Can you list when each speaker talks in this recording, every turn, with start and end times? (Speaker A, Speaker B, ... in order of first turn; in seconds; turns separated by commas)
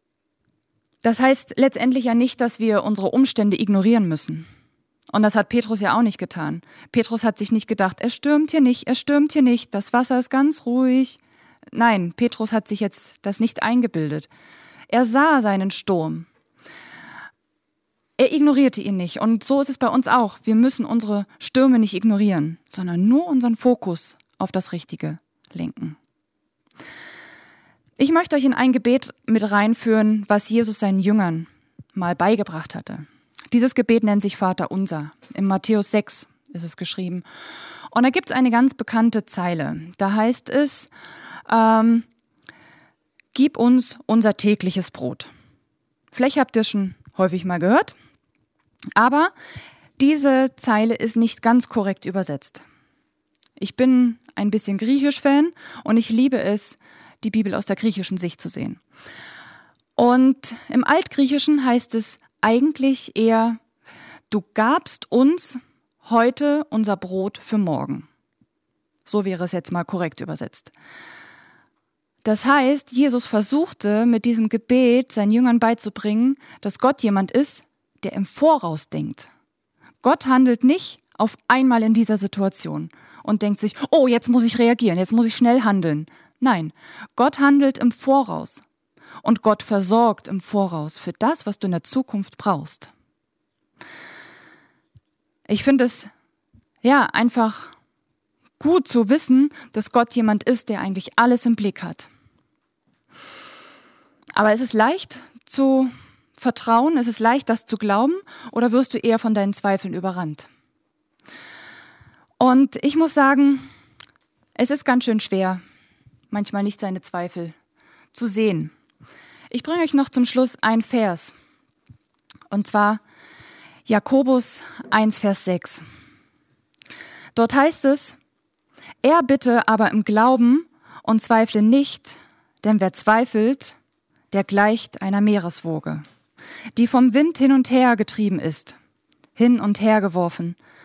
Speaker A: 1.0-4.5, Speaker A: 5.1-11.2, Speaker A: 11.7-14.3, Speaker A: 14.9-16.3, Speaker A: 18.2-26.0, Speaker A: 28.0-37.2, Speaker A: 37.9-40.9, Speaker A: 41.5-42.1, Speaker A: 43.3-45.3, Speaker A: 46.1-47.9, Speaker A: 49.0-49.3, Speaker A: 50.0-52.6, Speaker A: 53.6-58.8, Speaker A: 60.0-63.6, Speaker A: 64.3-68.1, Speaker A: 69.1-70.7, Speaker A: 72.2-79.3, Speaker A: 80.0-88.6, Speaker A: 89.2-92.9, Speaker A: 95.5-96.1, Speaker A: 96.8-97.7, Speaker A: 98.6-102.1, Speaker A: 104.4-110.5, Speaker A: 112.4-113.7, Speaker A: 114.6-115.6, Speaker A: 116.3-117.5, Speaker A: 118.1-118.7, Speaker A: 119.5-121.3, Speaker A: 122.5-123.0, Speaker A: 123.9-125.8, Speaker A: 127.3-128.2, Speaker A: 129.0-133.8, Speaker A: 134.3-136.0, Speaker A: 136.8-138.8, Speaker A: 139.4-140.6